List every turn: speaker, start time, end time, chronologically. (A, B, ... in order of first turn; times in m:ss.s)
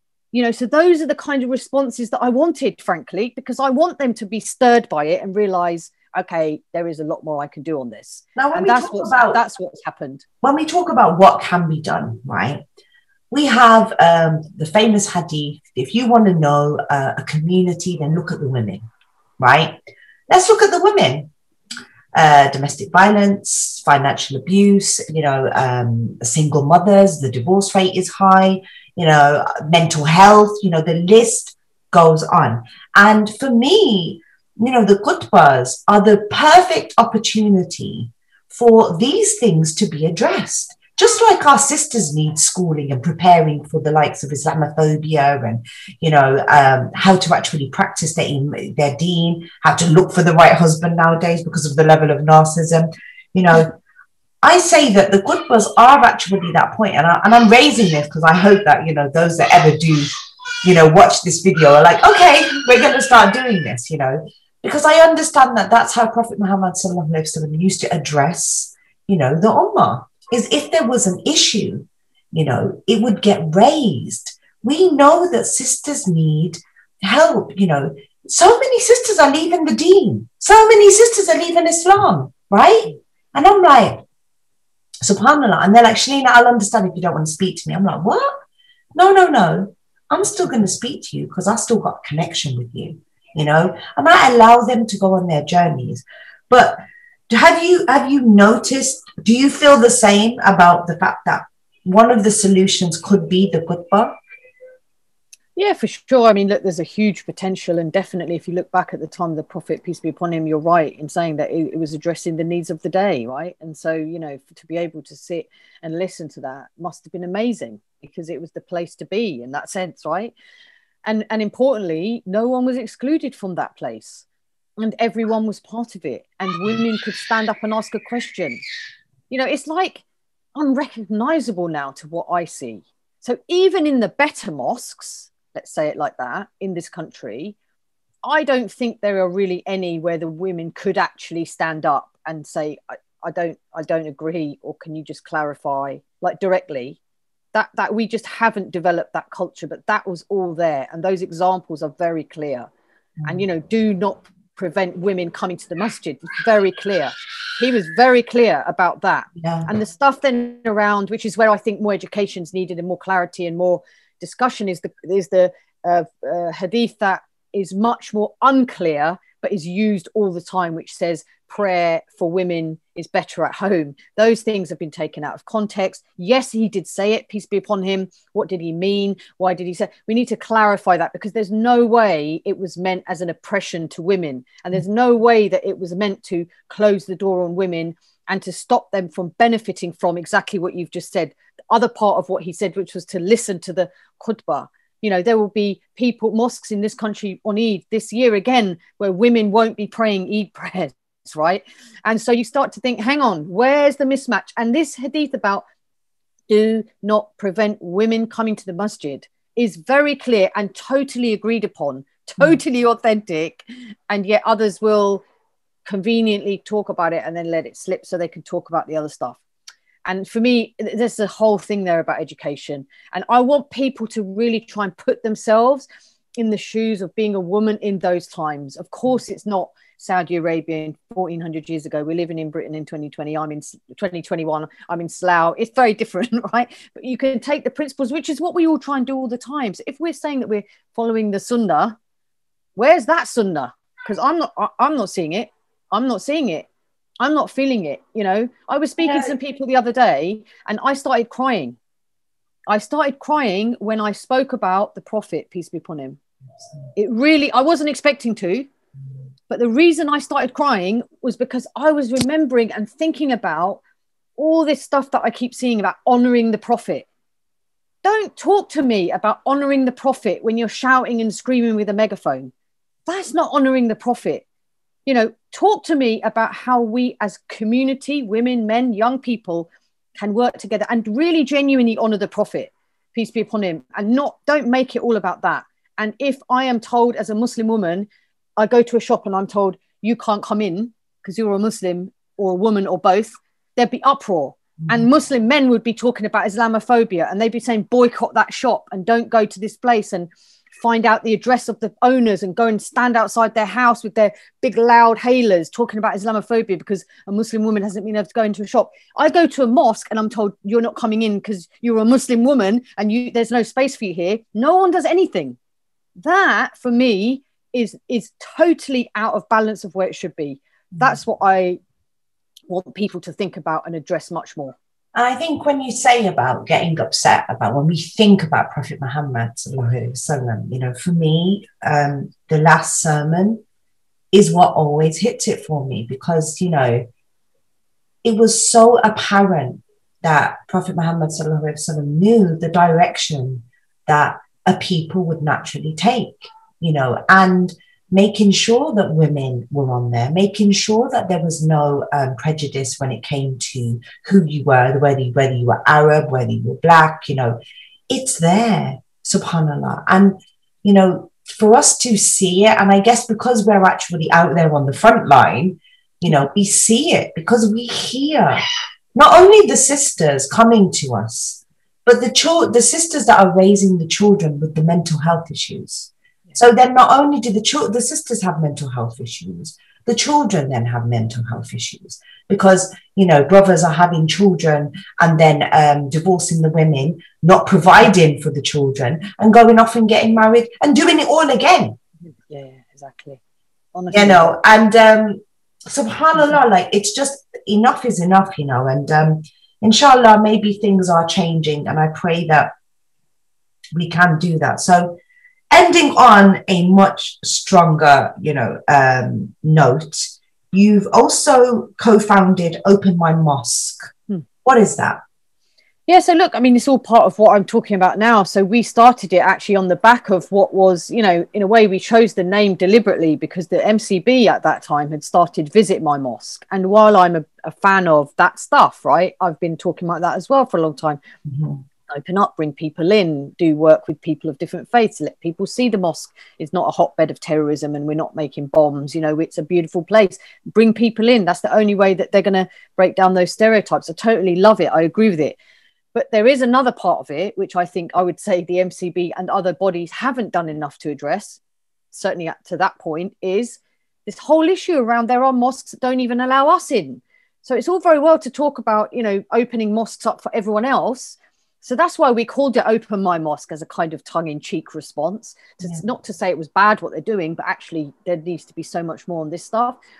0:00.3-0:10.2 A
0:08.4-0:09.4 B
0:10.4-0:12.6 B
0:13.3-0:18.8 B
0:19.4-0:19.8 B
0:20.3-0:21.3 B
0:22.1-0:53.7 B
0:54.4-1:00.1 B
1:00.6-1:24.0 B
1:25.0-1:28.4 B
1:28.9-1:44.1 B
1:45.6-2:00.3 A
2:01.0-2:04.2 A
2:04.8-2:08.6 A
2:09.3-2:10.0 A
2:10.6-2:17.5 A
2:18.2-2:27.0 A
2:27.5-2:32.7 A
2:33.2-2:33.4 B
2:33.3-3:25.6 A
2:39.4-2:39.7 B
3:26.5-3:35.2 A
3:35.8-3:39.4 A
3:40.0-3:45.8 A
3:46.4-4:02.0 A
4:02.8-4:06.7 A
4:07.2-4:11.8 A
4:09.0-4:09.3 B
4:12.7-4:16.2 A
4:17.0-4:18.7 A
4:19.5-4:23.8 A
4:24.4-4:27.0 A
4:28.0-4:32.5 A
4:33.1-4:34.4 A
4:35.0-5:15.6 A
4:54.8-4:55.1 B
5:16.2-5:21.8 A
5:22.7-5:24.7 A
5:25.1-5:33.6 B
5:34.3-5:37.0 B
5:38.2-5:57.6 B
5:58.1-6:08.6 B
6:09.1-6:32.0 B
6:32.5-6:33.4 A
6:33.9-6:34.5 A
6:34.1-6:42.7 B
6:43.9-6:45.1 B
6:45.7-6:54.1 B
6:54.6-6:55.2 B
6:56.1-7:11.2 A
7:11.5-7:11.8 B
7:12.1-7:25.6 A
7:26.1-7:31.6 A
7:32.1-7:50.0 A